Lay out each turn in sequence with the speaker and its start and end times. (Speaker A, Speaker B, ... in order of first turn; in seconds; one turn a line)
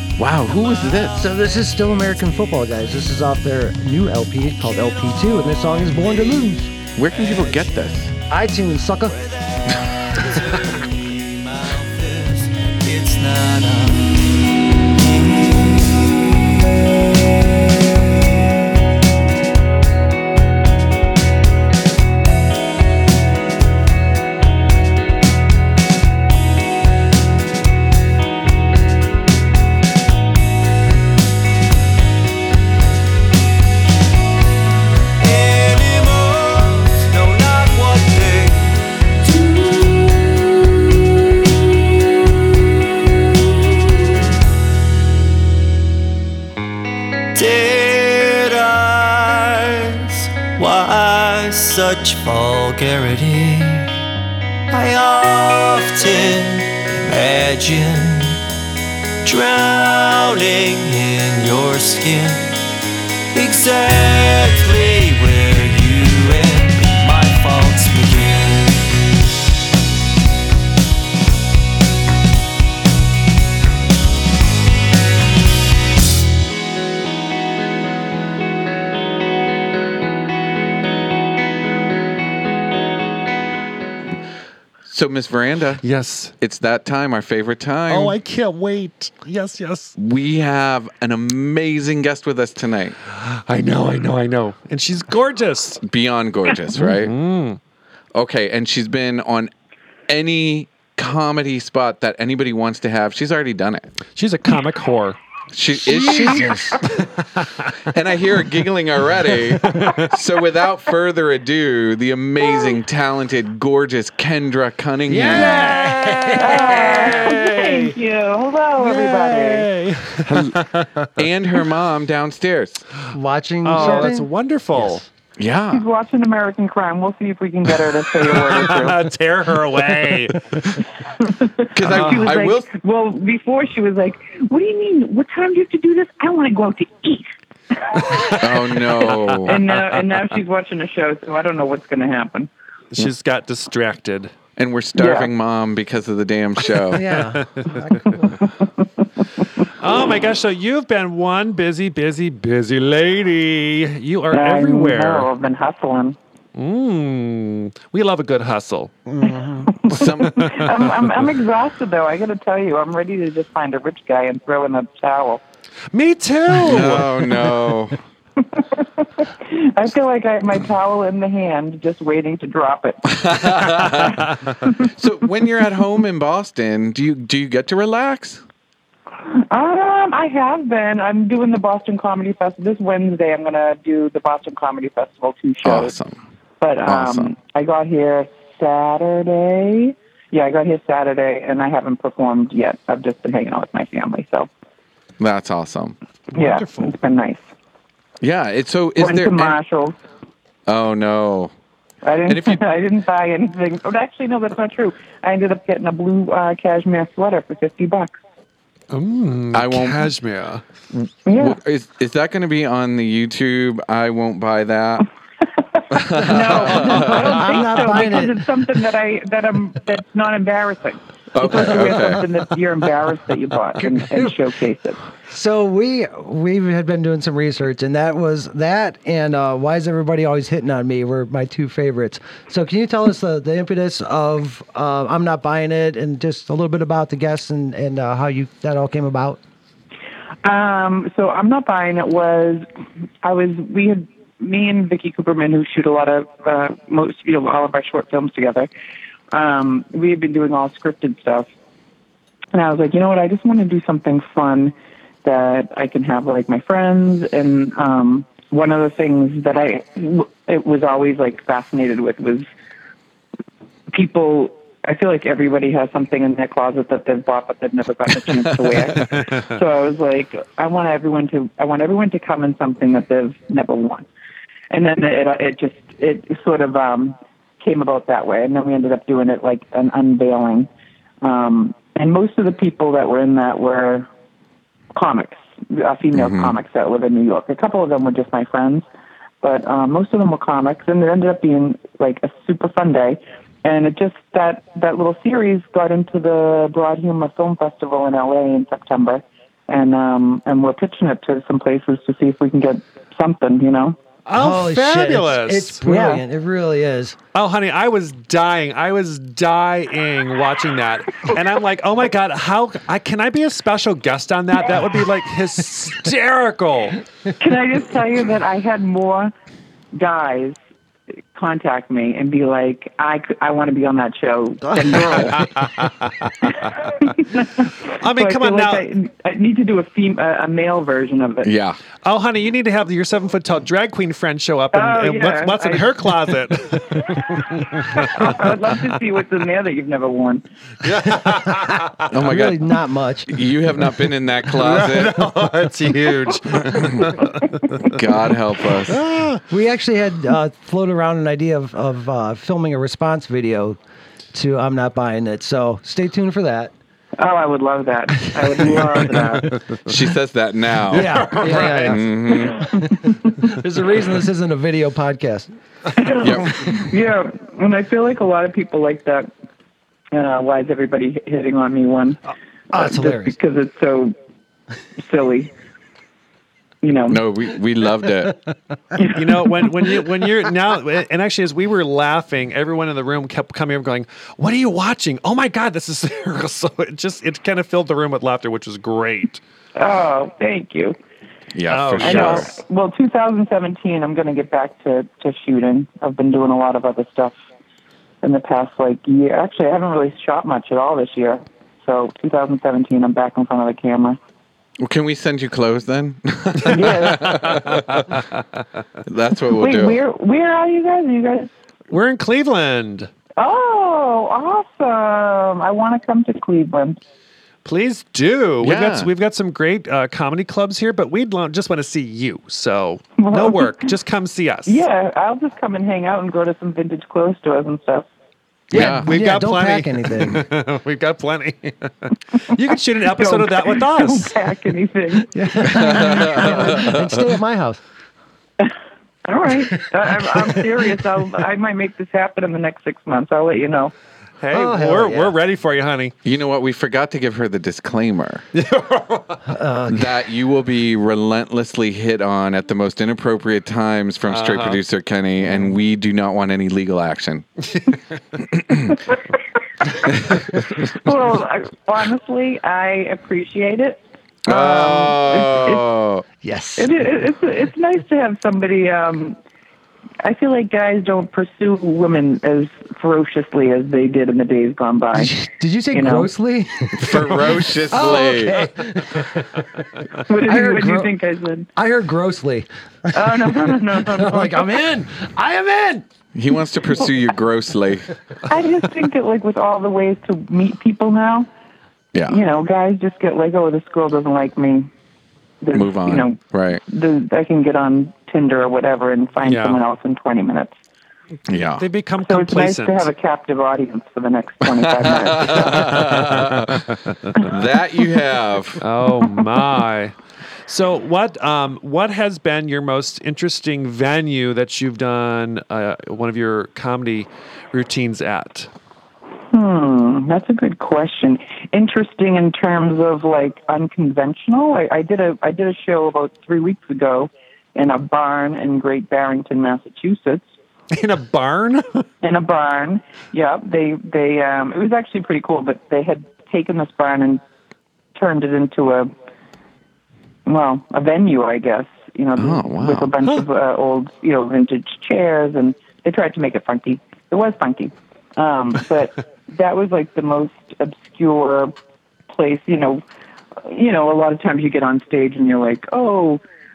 Speaker A: 0.2-1.2
Speaker B: 0.5-2.2
Speaker C: 1.2-6.7
Speaker B: 4.5-5.2
Speaker B: 5.9-8.2
Speaker A: 7.0-8.1
Speaker C: 8.3-9.2
Speaker B: 9.0-14.2
Speaker B: 14.9-16.0
Speaker B: 35.2-38.8
Speaker B: 47.3-53.9
Speaker B: 54.7-58.4
Speaker B: 59.2-62.6
Speaker B: 63.3-68.9
Speaker A: 84.8-85.8
Speaker D: 85.8-86.3
Speaker A: 86.4-88.2
Speaker D: 87.9-89.9
Speaker A: 90.0-93.0
Speaker D: 93.1-95.8
Speaker A: 95.8-97.1
Speaker D: 96.7-97.6
Speaker A: 98.1-99.5
Speaker A: 100.1-103.9
Speaker D: 104.2-105.2
Speaker A: 105.5-106.7
Speaker C: 105.7-106.8
Speaker D: 107.0-107.7
Speaker A: 107.8-115.8
Speaker D: 109.6-110.1
Speaker C: 115.1-117.3
Speaker D: 115.3-117.9
Speaker E: 116.4-119.7
Speaker D: 118.8-121.1
Speaker A: 120.3-120.6
Speaker A: 121.2-122.8
Speaker C: 123.1-124.3
Speaker D: 123.6-125.0
Speaker A: 125.4-125.8
Speaker E: 125.7-129.0
Speaker D: 128.2-130.8
Speaker E: 131.2-137.3
Speaker A: 131.7-132.7
Speaker D: 131.8-132.3
Speaker D: 137.9-140.0
Speaker A: 138.4-139.6
Speaker E: 139.4-142.5
Speaker D: 142.9-144.3
Speaker A: 144.6-147.1
Speaker E: 144.9-145.3
Speaker C: 146.9-148.3
Speaker D: 147.1-147.8
Speaker D: 149.8-155.3
Speaker E: 154.3-156.2
Speaker D: 156.5-159.4
Speaker C: 159.2-159.7
Speaker E: 159.8-165.4
Speaker A: 159.9-160.6
Speaker D: 159.9-161.0
Speaker D: 165.9-167.1
Speaker A: 166.5-168.0
Speaker E: 168.4-173.2
Speaker A: 173.1-174.2
Speaker A: 174.8-178.4
Speaker E: 179.3-185.9
Speaker A: 185.6-186.2
Speaker E: 186.6-194.5
Speaker A: 186.8-187.3
Speaker A: 195.2-195.9
Speaker E: 196.3-197.4
Speaker D: 196.3-196.9
Speaker A: 198.2-199.6
Speaker E: 199.0-199.9
Speaker A: 200.7-201.5
Speaker E: 202.0-208.1
Speaker A: 202.2-202.6
Speaker D: 208.9-210.6
Speaker A: 209.5-210.1
Speaker A: 210.9-215.0
Speaker E: 211.2-211.6
Speaker A: 215.9-217.6
Speaker E: 216.1-225.0
Speaker C: 216.6-218.5
Speaker A: 221.3-222.3
Speaker C: 225.3-239.4
Speaker E: 240.4-242.6
Speaker E: 243.2-248.7
Speaker E: 249.3-251.5
Speaker E: 252.5-262.4
Speaker E: 263.9-274.1
Speaker E: 274.7-280.7
Speaker E: 281.2-284.1
Speaker E: 284.9-288.9
Speaker A: 286.1-286.6
Speaker E: 289.4-304.0
Speaker D: 304.2-306.2
Speaker C: 304.4-307.2
Speaker D: 307.3-317.0
Speaker E: 317.4-319.3
Speaker E: 319.9-320.6
Speaker E: 321.3-325.4
Speaker D: 325.1-326.6
Speaker E: 327.0-331.5
Speaker D: 328.0-328.8
Speaker A: 331.4-331.8
Speaker D: 332.0-338.4
Speaker E: 334.7-336.1
Speaker E: 337.9-340.4
Speaker D: 340.8-341.8
Speaker A: 342.1-342.7
Speaker C: 342.2-343.3
Speaker A: 343.3-345.3
Speaker D: 344.5-347.9
Speaker A: 346.7-347.1
Speaker A: 347.9-349.0
Speaker D: 348.9-349.4
Speaker C: 349.5-353.8
Speaker C: 354.3-356.7
Speaker E: 357.2-359.5
Speaker A: 359.9-362.6
Speaker D: 360.9-362.0
Speaker C: 360.9-365.5
Speaker E: 366.0-369.3
Speaker A: 366.2-366.6
Speaker E: 370.1-372.2
Speaker C: 372.7-373.4
Speaker E: 372.7-374.1
Speaker E: 375.0-375.5
Speaker E: 376.8-377.2
Speaker A: 377.1-378.4
Speaker E: 378.9-379.7
Speaker D: 379.1-389.4
Speaker E: 389.8-390.9
Speaker A: 391.5-392.5
Speaker D: 391.7-392.6
Speaker E: 392.0-397.4
Speaker E: 398.2-404.2
Speaker A: 404.8-408.2
Speaker E: 406.7-407.4
Speaker D: 407.2-408.2
Speaker A: 409.1-410.0
Speaker E: 409.5-411.5
Speaker D: 411.9-413.1
Speaker E: 413.4-417.0
Speaker D: 417.6-424.8
Speaker A: 418.6-419.1
Speaker E: 423.2-423.9
Speaker E: 424.6-428.1
Speaker C: 428.7-430.4
Speaker A: 428.7-429.1
Speaker D: 428.7-434.4
Speaker E: 433.1-435.3
Speaker C: 435.3-437.8
Speaker A: 435.6-437.2
Speaker E: 439.2-443.9
Speaker D: 444.4-446.1
Speaker C: 444.5-445.4
Speaker A: 446.2-448.4
Speaker D: 448.5-449.4
Speaker C: 449.5-450.1
Speaker A: 449.9-457.5
Speaker D: 454.3-454.8
Speaker D: 455.4-455.7
Speaker A: 458.5-459.0
Speaker A: 460.0-460.9
Speaker E: 460.8-465.9
Speaker A: 464.4-466.2
Speaker C: 466.4-467.1
Speaker E: 466.8-469.4
Speaker E: 470.2-475.3
Speaker C: 475.1-479.6
Speaker E: 475.9-476.3
Speaker A: 476.9-478.6
Speaker E: 480.3-481.7
Speaker C: 480.4-481.1
Speaker C: 481.8-486.0
Speaker E: 483.1-484.7
Speaker A: 486.3-488.1
Speaker E: 488.5-491.5
Speaker A: 492.1-492.4
Speaker E: 492.3-494.9
Speaker E: 495.6-500.7
Speaker A: 495.7-496.8
Speaker D: 499.4-499.8
Speaker A: 501.5-501.8
Speaker D: 501.8-503.1
Speaker E: 502.2-505.9
Speaker A: 504.8-506.8
Speaker D: 505.7-507.4
Speaker A: 507.4-508.8
Speaker D: 508.8-510.1
Speaker D: 510.7-518.7
Speaker E: 519.5-530.5
Speaker D: 530.9-532.0
Speaker E: 532.2-537.4
Speaker E: 538.1-539.1
Speaker E: 540.5-551.7
Speaker A: 542.4-543.1
Speaker E: 552.3-553.0
Speaker E: 553.6-556.4